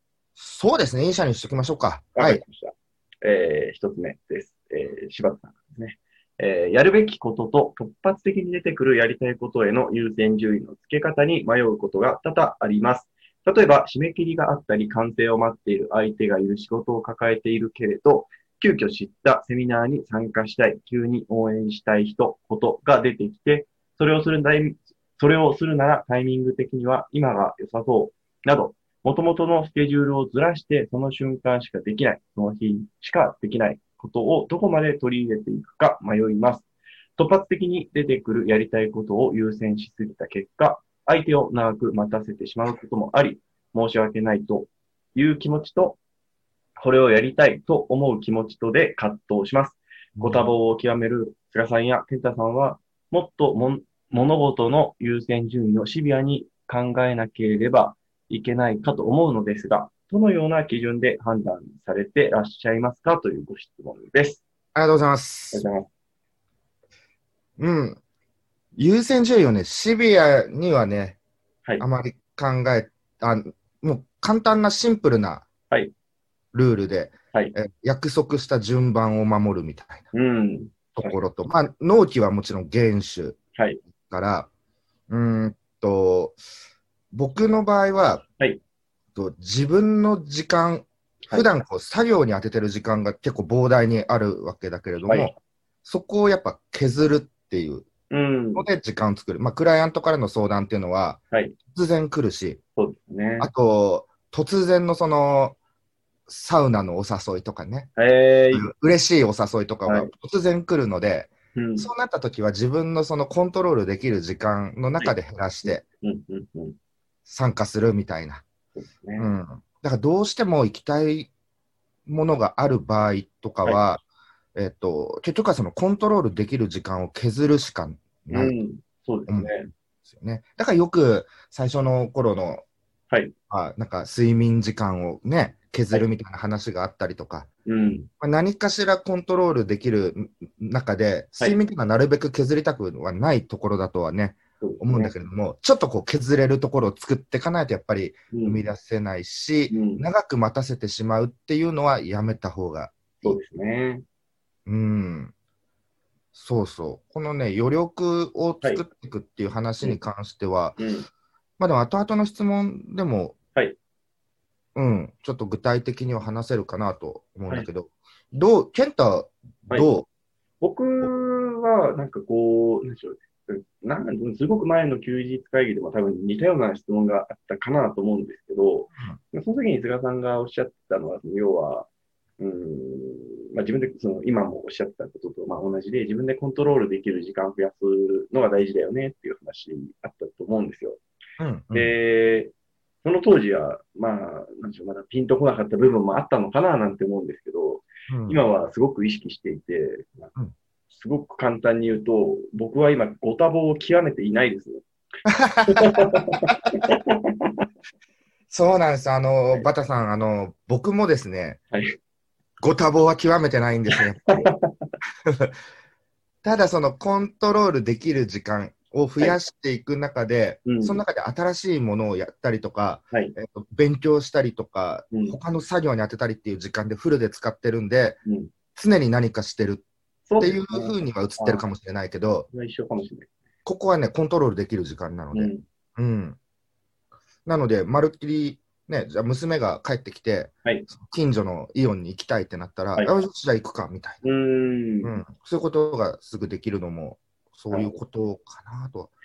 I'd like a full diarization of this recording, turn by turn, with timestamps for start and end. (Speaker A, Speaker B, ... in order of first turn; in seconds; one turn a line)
Speaker A: 0.4-2.4
Speaker B: 2.2-36.7
Speaker B: 37.2-46.0
Speaker B: 46.8-64.4
Speaker A: 50.2-50.5
Speaker A: 64.8-65.6
Speaker B: 65.5-65.9
Speaker A: 67.6-68.0
Speaker A: 68.8-71.2
Speaker A: 71.8-75.5
Speaker A: 76.5-80.1
Speaker B: 80.1-81.2
Speaker A: 81.0-83.4
Speaker B: 83.5-83.8
Speaker A: 83.9-84.5
Speaker A: 85.1-86.4
Speaker A: 87.1-88.2
Speaker A: 89.2-95.3
Speaker B: 95.0-95.4
Speaker A: 95.8-97.9
Speaker B: 98.1-98.7
Speaker A: 98.6-102.6
Speaker B: 102.8-103.5
Speaker A: 103.4-105.6
Speaker A: 106.3-107.9
Speaker B: 108.0-108.7
Speaker A: 108.6-115.8
Speaker B: 111.5-111.9
Speaker B: 115.6-116.8
Speaker A: 117.3-118.5
Speaker B: 118.8-119.3
Speaker A: 119.2-121.3
Speaker A: 122.1-124.0
Speaker A: 124.5-128.6
Speaker B: 128.3-129.7
Speaker A: 129.3-129.5
Speaker A: 130.1-132.6
Speaker A: 133.5-137.5
Speaker B: 137.7-138.1
Speaker A: 138.2-153.4
Speaker B: 144.6-145.1
Speaker B: 148.3-148.7
Speaker B: 149.7-150.0
Speaker B: 153.2-154.1
Speaker A: 154.7-155.3
Speaker A: 156.3-160.8
Speaker B: 160.8-161.1
Speaker A: 161.6-163.4
Speaker A: 164.8-170.1
Speaker B: 170.6-181.9
Speaker B: 182.4-191.0
Speaker A: 191.4-191.9
Speaker B: 191.7-192.5
Speaker B: 193.0-200.3
Speaker A: 198.1-198.4
Speaker B: 200.9-204.8
Speaker A: 205.3-206.5
Speaker B: 205.7-207.5
Speaker A: 208.5-211.6
Speaker A: 212.6-214.5
Speaker B: 213.9-214.9
Speaker A: 215.3-215.5
Speaker A: 216.4-228.2
Speaker B: 220.7-221.0
Speaker B: 225.1-225.4
Speaker A: 228.8-229.8
Speaker B: 230.3-231.7
Speaker A: 230.4-232.5
Speaker B: 232.5-233.3
Speaker A: 233.7-236.4
Speaker B: 235.3-235.6
Speaker A: 237.5-244.3
Speaker B: 244.2-245.1
Speaker A: 245.0-249.1
Speaker B: 247.7-248.0